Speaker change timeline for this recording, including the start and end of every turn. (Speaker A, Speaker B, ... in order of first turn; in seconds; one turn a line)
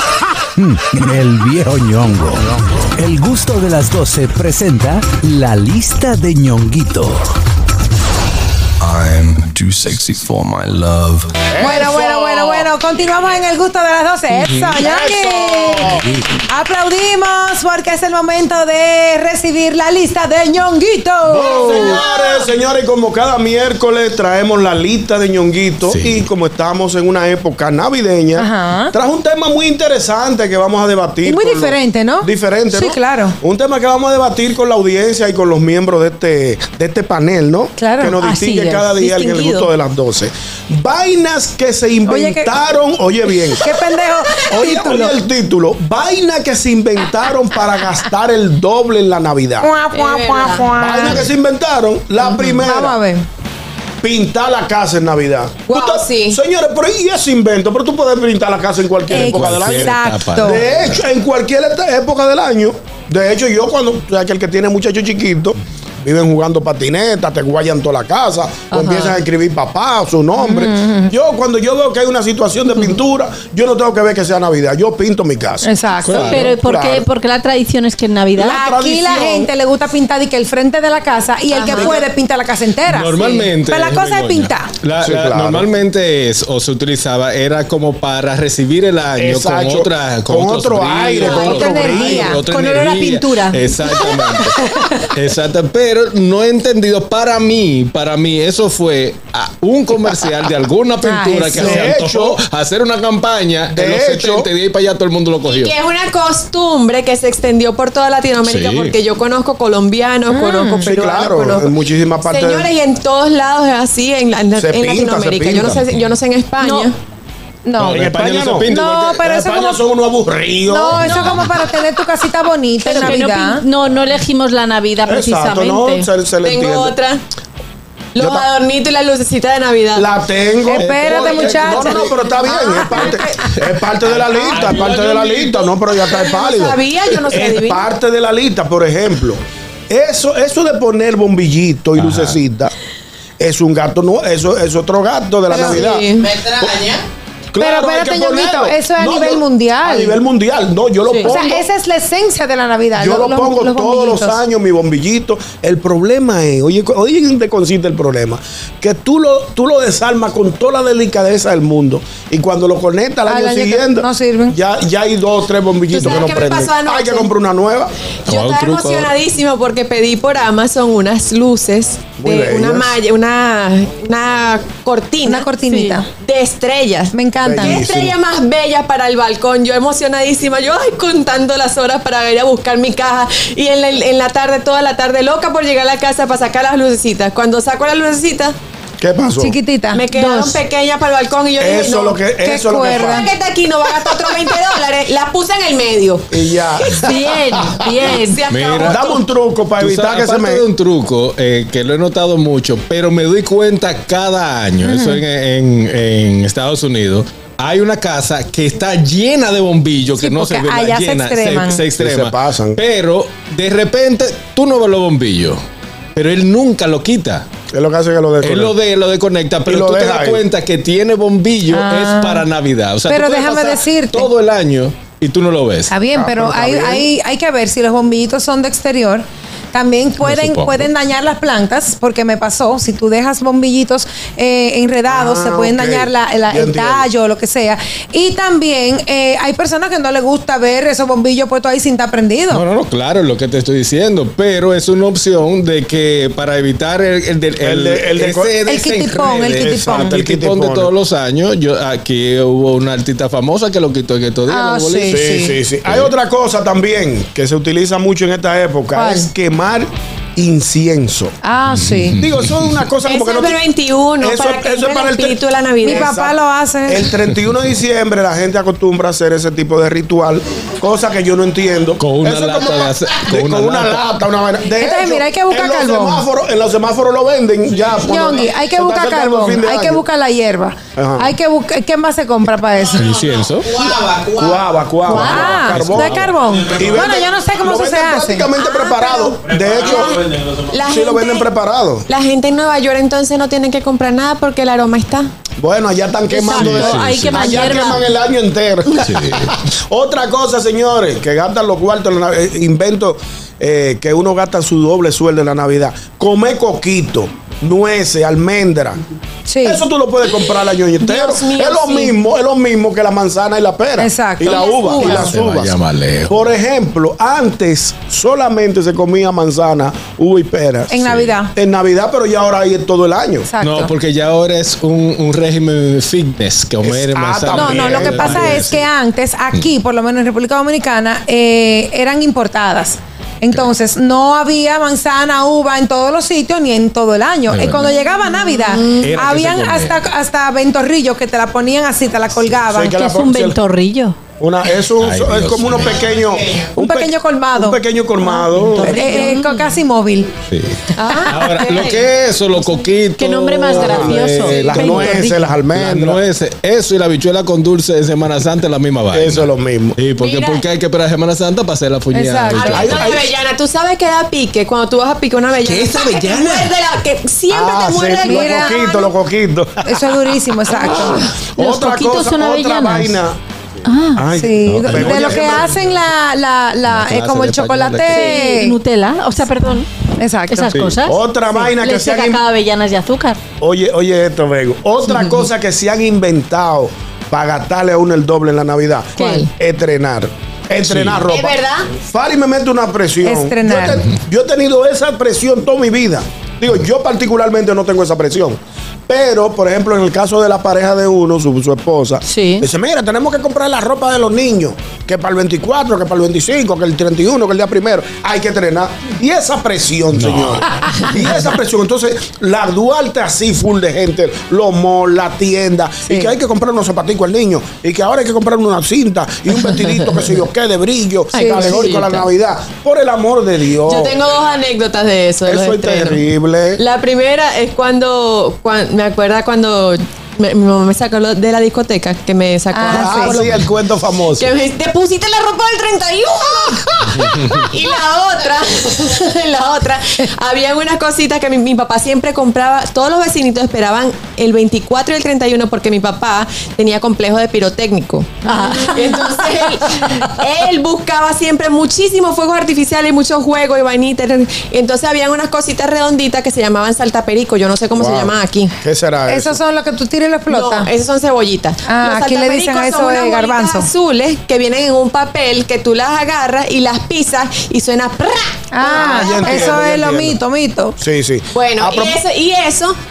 Speaker A: 0.6-7.3
Speaker B: 8.8-11.4
Speaker C: 11.5-12.7
Speaker D: 11.6-22.0
Speaker C: 14.5-16.1
Speaker C: 21.3-43.7
Speaker E: 21.4-22.5
Speaker F: 25.9-26.3
Speaker D: 28.4-28.9
Speaker D: 31.2-33.4
Speaker D: 37.8-38.2
Speaker G: 38.2-38.9
Speaker E: 39.0-39.7
Speaker D: 42.1-42.5
Speaker D: 43.5-45.2
Speaker C: 44.5-49.7
Speaker D: 49.6-51.3
Speaker E: 49.9-50.7
Speaker C: 50.8-53.0
Speaker D: 52.2-53.3
Speaker C: 54.0-77.1
Speaker E: 55.7-56.4
Speaker D: 59.1-60.6
Speaker F: 59.2-60.7
Speaker D: 68.7-69.2
Speaker D: 70.4-71.1
Speaker D: 75.6-76.3
Speaker G: 76.1-78.6
Speaker F: 76.1-76.5
Speaker C: 78.4-79.5
Speaker D: 78.4-84.7
Speaker E: 81.5-82.0
Speaker F: 82.8-105.7
Speaker C: 85.0-85.7
Speaker C: 89.2-92.4
Speaker D: 91.2-95.1
Speaker G: 92.6-93.6
Speaker D: 101.0-101.9
Speaker C: 101.5-102.4
Speaker C: 103.7-104.5
Speaker E: 105.5-111.7
Speaker F: 108.4-109.0
Speaker D: 110.3-110.8
Speaker C: 110.9-112.7
Speaker E: 112.2-117.0
Speaker C: 114.6-115.8
Speaker F: 115.8-116.1
Speaker D: 116.6-116.9
Speaker D: 117.7-118.0
Speaker F: 117.8-119.2
Speaker C: 117.9-118.7
Speaker D: 118.7-119.8
Speaker C: 119.3-121.2
Speaker D: 120.7-123.6
Speaker G: 122.8-126.1
Speaker E: 122.9-123.2
Speaker C: 125.0-127.0
Speaker E: 126.4-127.2
Speaker E: 128.2-130.1
Speaker C: 128.2-128.5
Speaker C: 130.0-142.7
Speaker D: 130.7-132.1
Speaker E: 131.0-133.5
Speaker D: 132.7-133.2
Speaker E: 134.3-134.8
Speaker F: 134.5-135.5
Speaker E: 136.0-137.9
Speaker F: 142.0-142.4
Speaker C: 143.4-146.9
Speaker E: 145.5-146.4
Speaker C: 147.5-151.7
Speaker D: 147.6-150.2
Speaker D: 151.2-154.4
Speaker C: 153.0-167.9
Speaker D: 163.3-164.6
Speaker E: 165.9-167.3
Speaker E: 168.3-188.6
Speaker F: 168.3-169.1
Speaker C: 172.2-173.0
Speaker D: 175.2-176.1
Speaker G: 175.6-176.0
Speaker D: 177.1-177.8
Speaker C: 177.4-178.2
Speaker C: 189.0-189.6
Speaker D: 189.4-190.6
Speaker E: 189.9-192.2
Speaker G: 190.1-190.5
Speaker C: 191.6-193.3
Speaker D: 192.4-193.3
Speaker E: 192.8-199.2
Speaker C: 196.3-198.1
Speaker G: 197.0-198.4
Speaker F: 198.5-199.0
Speaker C: 198.8-200.6
Speaker F: 199.8-215.6
Speaker D: 204.8-205.2
Speaker D: 210.2-211.8
Speaker C: 212.0-212.8
Speaker F: 216.2-217.5
Speaker C: 217.7-218.7
Speaker F: 218.4-225.9
Speaker C: 219.7-220.4
Speaker D: 221.7-222.5
Speaker D: 223.1-224.3
Speaker D: 225.9-242.6
Speaker C: 226.1-227.1
Speaker F: 230.2-230.9
Speaker C: 235.1-237.1
Speaker F: 242.5-255.3
Speaker C: 247.6-248.6
Speaker D: 248.7-250.2
Speaker C: 249.6-250.9
Speaker D: 254.5-255.6
Speaker C: 255.1-261.3
Speaker F: 255.9-256.1
Speaker D: 258.9-259.3
Speaker D: 261.4-262.2
Speaker F: 261.7-262.8
Speaker C: 262.2-263.6
Speaker E: 263.1-266.1
Speaker C: 264.2-280.1
Speaker D: 265.8-267.1
Speaker F: 272.0-274.1
Speaker D: 274.8-276.2
Speaker D: 278.0-283.1
Speaker C: 281.0-281.3
Speaker F: 282.9-284.2
Speaker C: 284.3-286.0
Speaker F: 285.1-287.2
Speaker D: 285.1-289.4
Speaker C: 286.7-290.2
Speaker F: 289.6-290.7
Speaker E: 289.6-291.5
Speaker C: 290.9-292.1
Speaker E: 292.1-295.3
Speaker C: 295.6-309.0
Speaker G: 296.3-298.1
Speaker F: 296.5-298.0
Speaker F: 298.9-299.5
Speaker D: 309.5-309.8
Speaker C: 309.6-315.8
Speaker E: 311.0-312.1
Speaker D: 314.0-315.3
Speaker E: 314.5-315.1
Speaker F: 315.1-316.5
Speaker C: 316.3-321.0
Speaker D: 320.9-321.5
Speaker F: 321.0-321.4
Speaker C: 321.5-323.5
Speaker D: 323.5-323.9
Speaker F: 323.6-328.9
Speaker C: 326.8-328.7
Speaker D: 327.5-342.9
Speaker F: 337.5-338.0
Speaker E: 338.6-339.1
Speaker F: 339.0-340.0
Speaker C: 342.6-343.6
Speaker G: 342.9-344.2
Speaker C: 344.4-349.3
Speaker F: 345.0-346.1
Speaker D: 346.8-347.8
Speaker G: 348.5-349.8
Speaker E: 348.7-349.0
Speaker D: 348.8-350.3
Speaker F: 350.5-354.7
Speaker D: 351.0-351.6
Speaker E: 351.0-352.0
Speaker G: 353.2-355.4
Speaker C: 353.7-356.2
Speaker F: 355.7-363.2
Speaker C: 359.1-360.0
Speaker E: 360.2-360.6
Speaker D: 362.1-362.8
Speaker E: 362.5-369.0
Speaker C: 362.7-363.3
Speaker C: 367.5-370.1
Speaker D: 368.2-369.1
Speaker D: 369.9-371.3
Speaker E: 370.8-371.3
Speaker C: 370.8-373.4
Speaker G: 371.4-373.2
Speaker G: 373.9-374.3
Speaker C: 374.1-375.7
Speaker D: 374.3-378.8
Speaker F: 374.7-376.0
Speaker F: 376.9-378.2
Speaker G: 378.1-383.4
Speaker E: 378.1-378.4
Speaker D: 380.2-380.8
Speaker C: 380.8-382.4
Speaker C: 383.6-424.2
Speaker G: 389.2-389.5
Speaker E: 389.2-389.5
Speaker F: 390.8-391.2
Speaker E: 391.3-391.9
Speaker D: 393.2-394.1
Speaker G: 402.2-402.7
Speaker F: 410.1-410.7
Speaker D: 421.3-421.9
Speaker E: 421.3-422.3
Speaker E: 423.9-458.7
Speaker C: 425.5-426.8
Speaker D: 432.7-433.4
Speaker C: 432.9-434.5
Speaker F: 437.1-437.7
Speaker G: 448.5-450.2
Speaker C: 458.0-459.6
Speaker D: 459.3-460.9
Speaker E: 460.5-469.8
Speaker D: 461.9-463.9
Speaker D: 468.7-471.0
Speaker C: 468.9-470.4
Speaker C: 471.0-472.2
Speaker E: 471.5-473.0